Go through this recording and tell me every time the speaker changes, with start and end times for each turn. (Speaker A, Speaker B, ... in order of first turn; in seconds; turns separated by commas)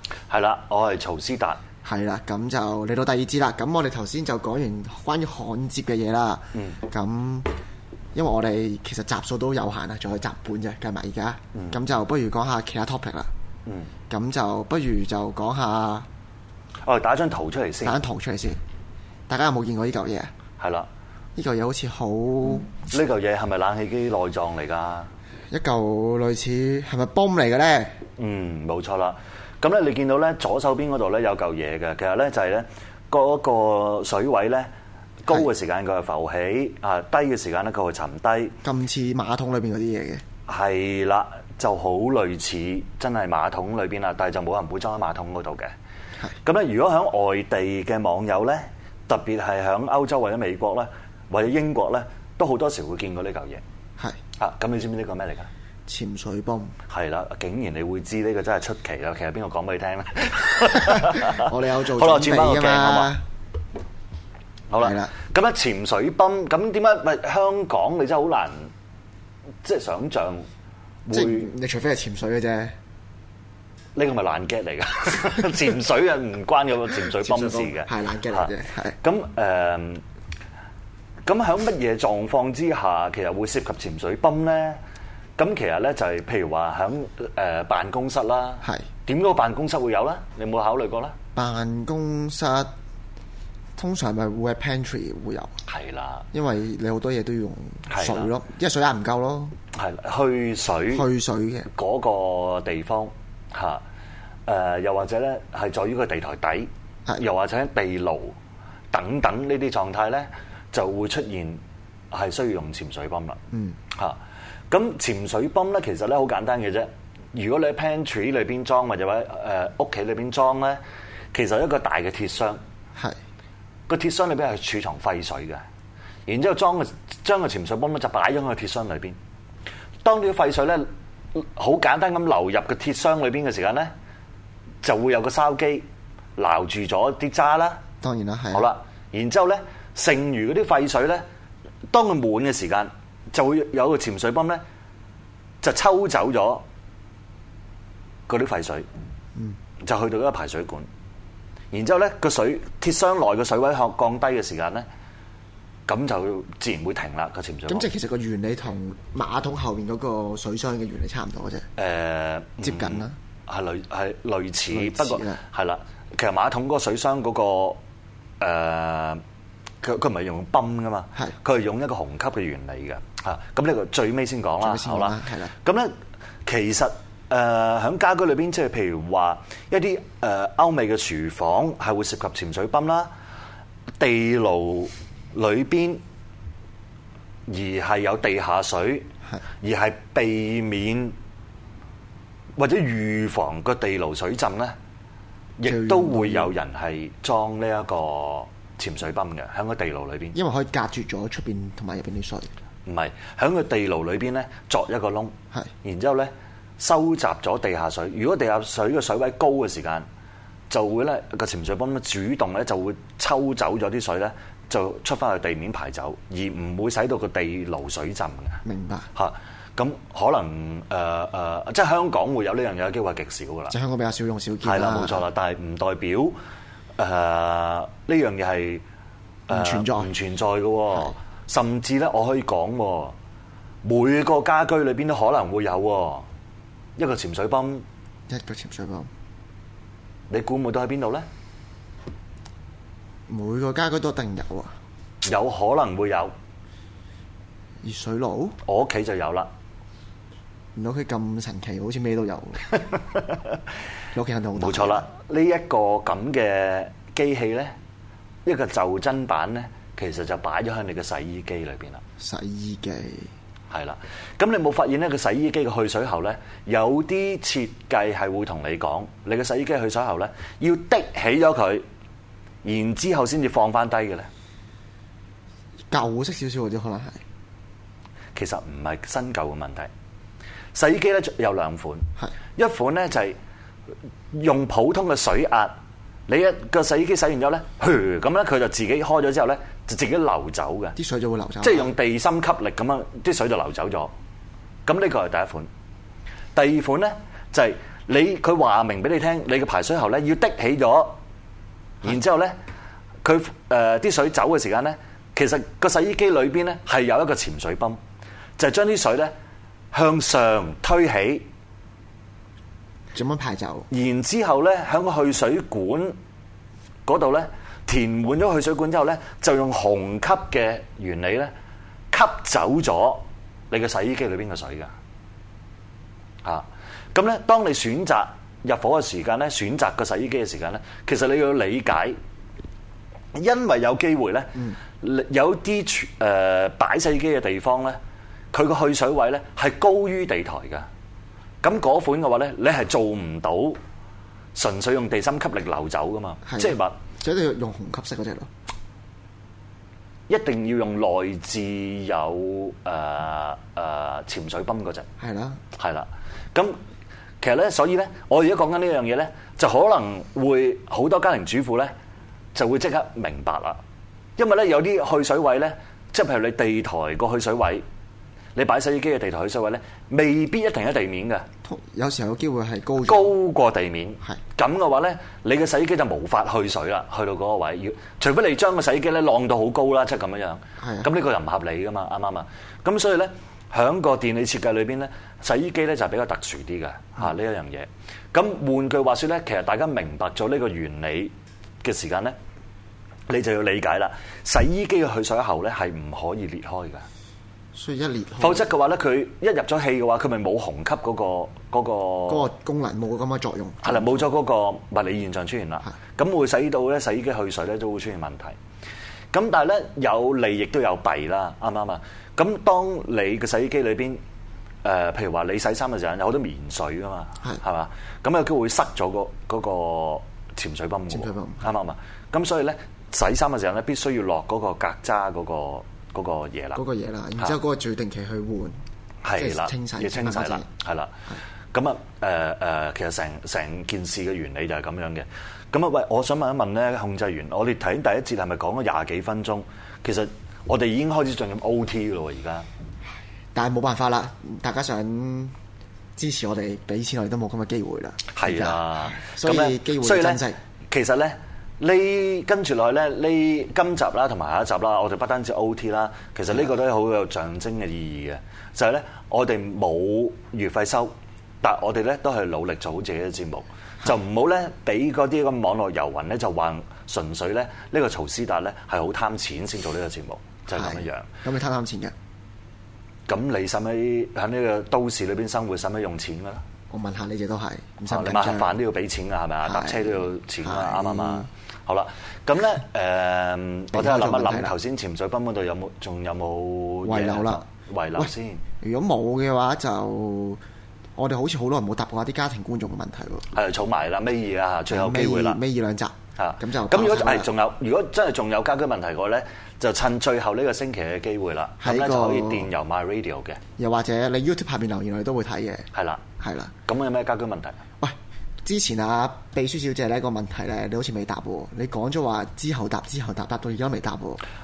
Speaker A: 0.3-1.6, Speaker B: 1.9-7.6, Speaker B: 8.1-13.3, Speaker B: 14.1-16.1, Speaker A: 16.9-18.0, Speaker B: 17.8-18.6, Speaker B: 19.3-20.3, Speaker A: 20.6-20.9, Speaker B: 21.4-22.7, Speaker A: 22.7-25.1, Speaker B: 25.5-28.0, Speaker A: 28.2-34.7, Speaker A: 35.2-38.6, Speaker B: 38.6-40.2, Speaker A: 40.5-45.7, Speaker A: 46.4-53.6, Speaker A: 54.4-55.5, Speaker B: 55.9-56.7, Speaker A: 56.9-63.1, Speaker B: 60.9-63.2, Speaker A: 64.7-68.7, Speaker B: 64.8-65.1, Speaker A: 69.6-70.5, Speaker A: 71.0-71.5, Speaker B: 71.1-72.7, Speaker A: 73.9-80.0, Speaker B: 77.2-79.0, Speaker A: 81.2-84.8, Speaker A: 85.4-91.2, Speaker B: 91.4-92.7, Speaker B: 93.8-95.5, Speaker A: 95.7-96.3, Speaker B: 96.3-99.5, Speaker A: 97.9-98.3, Speaker A: 99.8-101.0, Speaker B: 100.9-101.7, Speaker A: 101.7-103.8, Speaker A: 104.5-108.4, Speaker A: 108.9-111.6, Speaker A: 112.1-113.4, Speaker B: 113.5-113.8, Speaker A: 114.7-120.8, Speaker A: 121.3-122.6, Speaker A: 123.9-125.6, Speaker A: 126.3-129.2, Speaker A: 130.0-133.9, Speaker A: 134.8-135.8, Speaker A: 136.4-137.8, Speaker B: 138.0-138.7, Speaker A: 138.5-141.2, Speaker A: 141.9-144.6, Speaker A: 145.6-146.7, Speaker A: 148.3-148.9, Speaker A: 149.8-150.9, Speaker A: 151.7-154.8, Speaker A: 155.9-157.9, Speaker B: 157.7-161.7, Speaker A: 161.8-167.8, Speaker B: 162.6-163.2, Speaker B: 164.7-165.4, Speaker A: 168.4-169.2, Speaker A: 169.8-175.9, Speaker B: 174.6-175.5, Speaker A: 176.4-183.1, Speaker A: 184.0-186.0, Speaker A: 187.5-189.1, Speaker A: 189.6-191.2, Speaker A: 192.6-194.8, Speaker A: 195.6-200.4, Speaker B: 195.7-196.5, Speaker B: 200.3-202.5, Speaker A: 202.9-210.1, Speaker A: 210.7-218.6, Speaker B: 218.7-219.1, Speaker A: 219.2-223.8, Speaker B: 223.7-225.2, Speaker A: 224.6-226.3, Speaker A: 227.0-228.8, Speaker A: 229.5-233.2, Speaker B: 229.5-230.1, Speaker A: 233.8-236.3, Speaker A: 237.0-237.8, Speaker B: 238.3-239.1, Speaker A: 240.3-241.2, Speaker B: 243.3-244.7, Speaker A: 245.2-246.3, Speaker B: 247.8-248.6, Speaker A: 248.7-249.5, Speaker B: 250.8-252.7, Speaker B: 254.1-255.1, Speaker A: 254.6-257.7, Speaker A: 258.4-262.0, Speaker B: 262.2-263.3, Speaker A: 263.7-271.8, Speaker A: 272.6-274.3, Speaker B: 275.9-277.2, Speaker A: 278.4-279.9, Speaker A: 280.8-282.1, Speaker A: 282.6-283.4, Speaker A: 284.3-285.7, Speaker A: 286.3-291.0, Speaker B: 290.9-291.9, Speaker A: 291.6-294.1, Speaker A: 294.9-295.7, Speaker A: 296.6-301.2, Speaker A: 302.0-302.6, Speaker A: 303.2-308.0, Speaker A: 308.6-309.3, Speaker A: 309.9-311.4, Speaker B: 313.1-313.9, Speaker A: 313.9-316.1, Speaker A: 317.1-321.5, Speaker A: 322.1-324.9, Speaker A: 326.4-332.2, Speaker A: 333.3-338.0, Speaker A: 338.5-340.9, Speaker A: 341.6-343.8, Speaker A: 344.6-347.0, Speaker B: 346.5-348.5, Speaker A: 350.3-355.1, Speaker B: 355.2-355.6, Speaker A: 355.8-356.8, Speaker A: 357.4-361.9, Speaker A: 362.6-363.8, Speaker A: 364.4-367.8, Speaker A: 368.6-371.5, Speaker B: 371.6-373.3, Speaker A: 373.1-391.3, Speaker B: 380.8-381.1, Speaker A: 391.8-392.3, Speaker A: 393.3-397.1, Speaker B: 397.7-398.7, Speaker A: 398.4-402.5, Speaker B: 402.3-404.2, Speaker A: 403.8-408.6, Speaker A: 409.3-414.2, Speaker A: 414.8-426.8, Speaker B: 421.1-421.6, Speaker B: 426.8-428.8, Speaker A: 429.2-431.1, Speaker B: 429.4-430.6, Speaker A: 431.7-442.6, Speaker B: 443.5-445.5, Speaker B: 446.2-450.6, Speaker A: 448.3-471.3, Speaker B: 470.7-472.1, Speaker A: 473.3-476.6, Speaker B: 476.9-478.8, Speaker A: 478.1-488.6, Speaker B: 479.6-481.5, Speaker B: 483.9-484.8, Speaker B: 487.1-487.6, Speaker B: 488.2-490.6, Speaker B: 491.2-493.5, Speaker A: 493.5-495.6, Speaker B: 494.9-497.5, Speaker A: 496.4-503.6, Speaker B: 501.8-502.7, Speaker B: 503.8-505.9, Speaker A: 505.9-506.2, Speaker B: 506.4-506.7, Speaker A: 506.9-507.8, Speaker B: 508.0-514.4